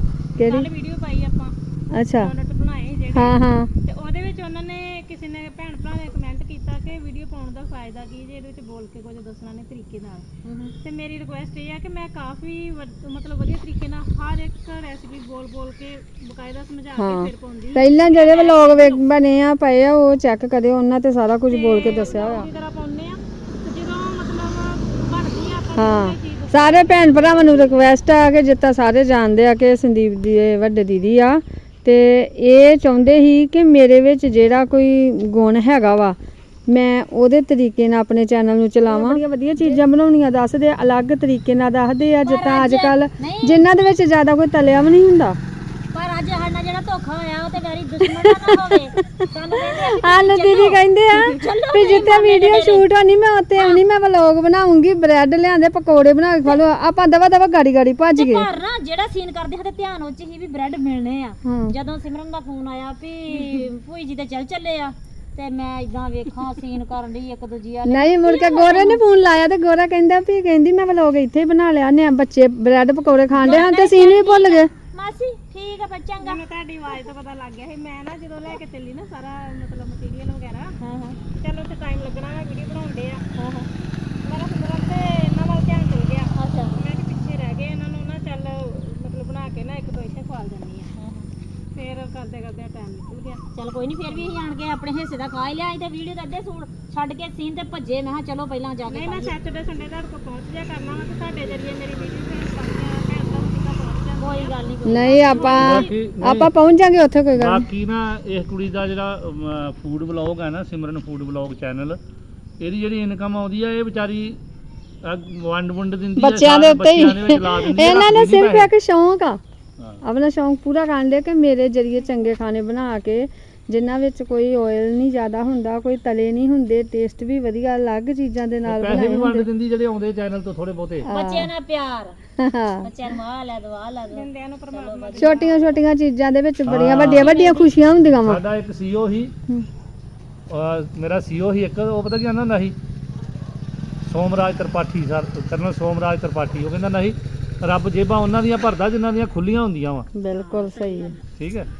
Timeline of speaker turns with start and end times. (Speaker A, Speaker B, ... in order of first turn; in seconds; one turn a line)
Speaker A: 0.4-0.7
Speaker B: 0.4-1.5
Speaker A: 1.9-2.3
Speaker B: 2.2-10.3
Speaker A: 3.1-3.7
Speaker B: 10.8-19.0
Speaker A: 16.9-22.5
Speaker B: 21.5-27.8
Speaker A: 25.7-36.1
Speaker A: 36.7-45.4
Speaker C: 42.2-43.6
Speaker C: 45.9-52.9
Speaker A: 48.0-48.8
Speaker A: 49.5-58.5
Speaker C: 53.5-53.8
Speaker C: 58.1-69.0
Speaker A: 61.4-61.7
Speaker A: 67.8-74.7
Speaker C: 73.3-76.4
Speaker B: 76.2-80.8
Speaker C: 80.8-81.2
Speaker B: 81.4-83.2
Speaker C: 83.3-83.7
Speaker B: 84.2-90.9
Speaker C: 86.3-86.8
Speaker C: 91.0-91.3
Speaker B: 91.7-93.5
Speaker C: 93.5-99.3
Speaker B: 94.1-94.3
Speaker B: 98.9-105.7
Speaker C: 104.2-105.9
Speaker A: 104.8-107.7
Speaker D: 105.3-106.5
Speaker D: 107.3-112.0
Speaker D: 112.6-114.4
Speaker D: 115.0-118.7
Speaker A: 116.2-119.4
Speaker A: 120.0-129.5
Speaker D: 128.6-131.1
Speaker A: 131.0-131.5
Speaker C: 131.1-132.2
Speaker A: 132.4-132.9
Speaker C: 132.8-135.8
Speaker B: 134.1-135.7
Speaker A: 135.2-138.4
Speaker D: 136.7-137.4
Speaker C: 137.2-137.7
Speaker D: 138.2-139.3
Speaker D: 140.5-142.8
Speaker D: 144.0-150.1
Speaker A: 150.2-151.2
Speaker C: 150.3-151.2
Speaker D: 151.4-151.7